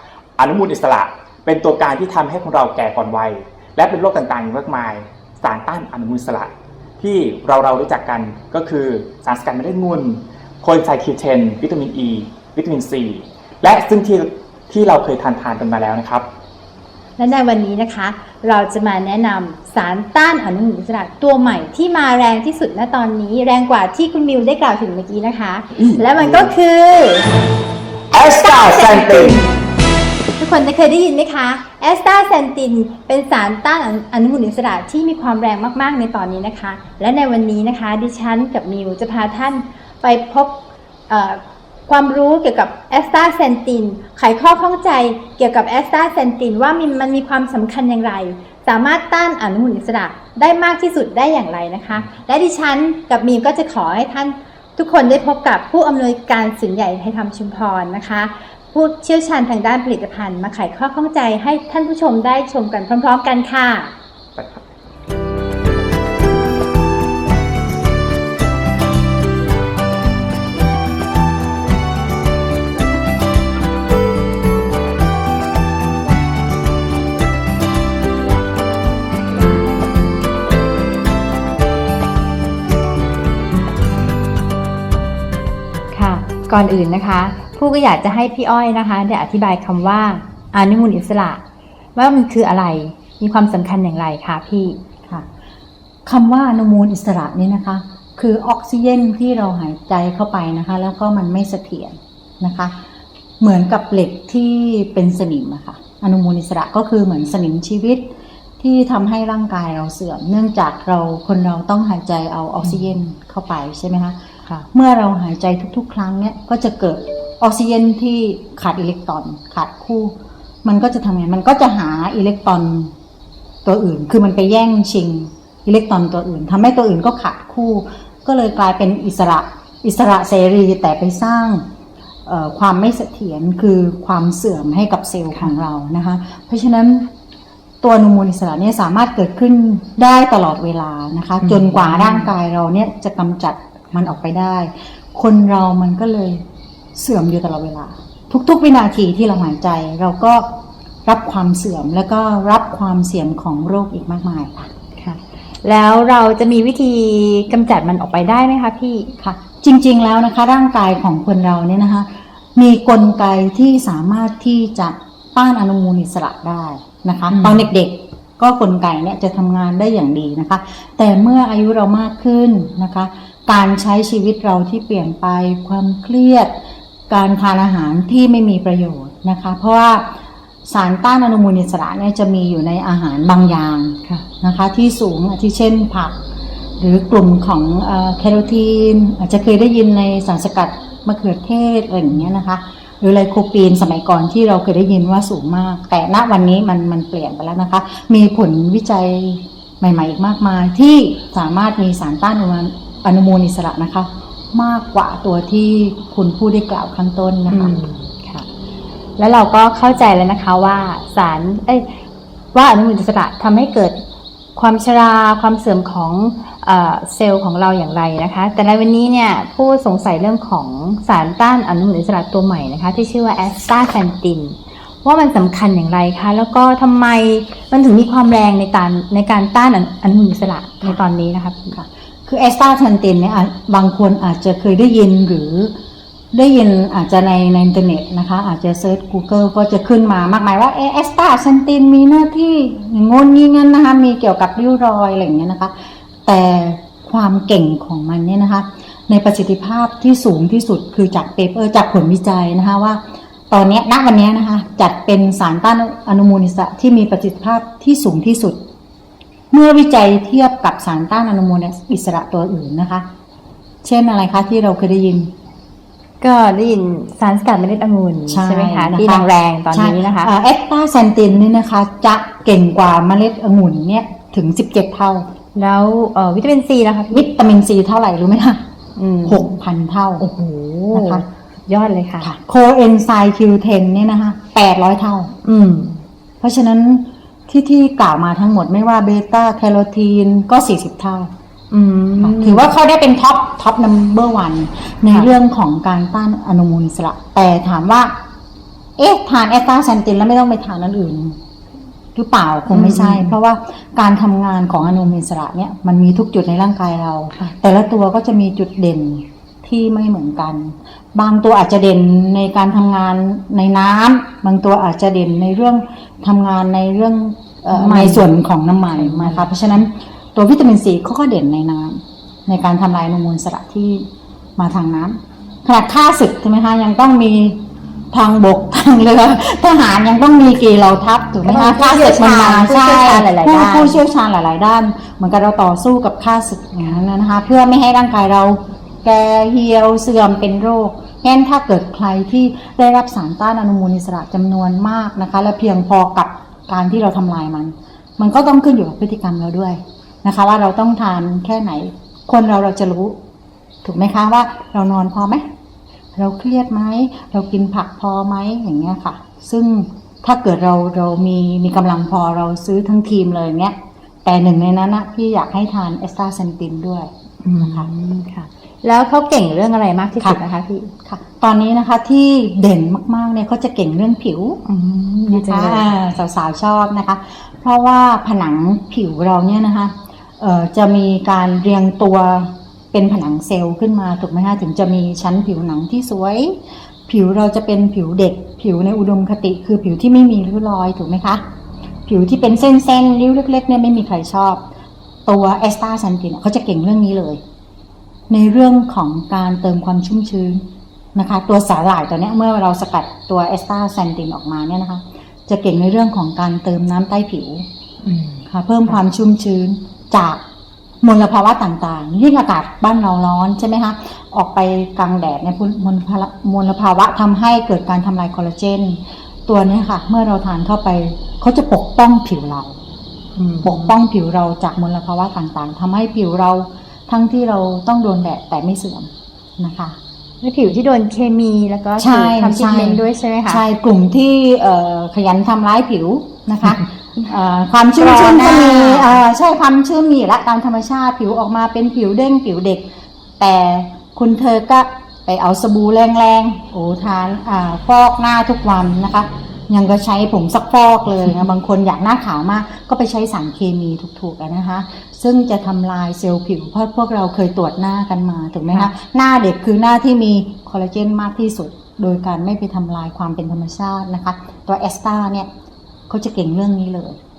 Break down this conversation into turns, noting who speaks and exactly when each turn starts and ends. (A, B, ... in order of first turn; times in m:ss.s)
0:00.4-0:16.3 A
0:17.2-0:27.3 B
0:26.2-0:26.5 A
0:28.1-0:29.4 A
0:28.2-0:29.5 B
0:30.4-0:40.6 B
0:41.1-1:03.9 B
1:04.4-1:04.6 A
1:25.9-1:31.4 B
1:31.9-1:34.8 B
1:36.0-1:42.7 C
1:43.4-1:54.2 C
1:52.6-1:52.9 B
1:54.7-2:02.9 C
2:03.6-2:11.6 C
2:12.2-2:17.1 C
2:17.8-2:26.4 C
2:21.4-2:22.3 B
2:26.9-2:30.4 C
2:31.0-2:34.7 C
2:35.0-2:39.1 B
2:39.2-2:56.6 C
2:47.3-2:47.6 B
2:57.1-3:00.1 C
3:00.6-3:06.2 C
3:06.8-3:27.7 C
3:27.5-3:28.5 B
3:29.2-3:31.9 B
3:32.5-3:34.0 B
3:34.6-3:51.8 B
3:51.7-3:55.7 C
3:56.3-4:05.7 C
4:06.2-4:18.6 C
4:19.5-4:23.0 C
4:23.8-4:25.3 C
4:26.2-4:30.3 B
4:28.3-4:35.2 C
4:35.5-4:37.2 B
4:37.1-4:38.6 C
4:39.0-4:39.4 B
4:39.2-4:40.2 C
4:40.2-4:42.3 B
4:40.9-4:41.2 C
4:42.2-4:45.3 C
4:45.4-4:46.0 B
4:46.4-4:51.3 C
4:51.7-4:52.7 B
4:52.2-4:58.1 C
4:55.1-4:55.3 B
4:59.0-5:01.4 C
5:02.1-5:53.2 C
5:02.7-5:03.3 B
5:17.7-5:18.3 B
5:18.9-5:19.5 B
5:31.4-5:34.0 B
5:53.8-5:55.4 C
5:56.1-6:07.9 C
6:07.4-6:10.9 B
6:11.0-6:14.6 C
6:14.6-6:15.9 B
6:15.3-6:31.4 C
6:32.0-6:34.6 C
6:35.2-6:37.4 C
6:38.3-6:40.6 C
6:41.1-6:47.6 C
6:48.0-6:49.0 B
6:48.5-6:50.4 C
6:51.0-7:02.8 C
7:03.4-7:03.9 B
7:03.6-7:10.0 C
7:10.4-7:13.6 B
7:12.0-7:22.8 C
7:18.0-7:19.2 B
7:23.4-7:45.5 C
7:46.1-7:47.2 C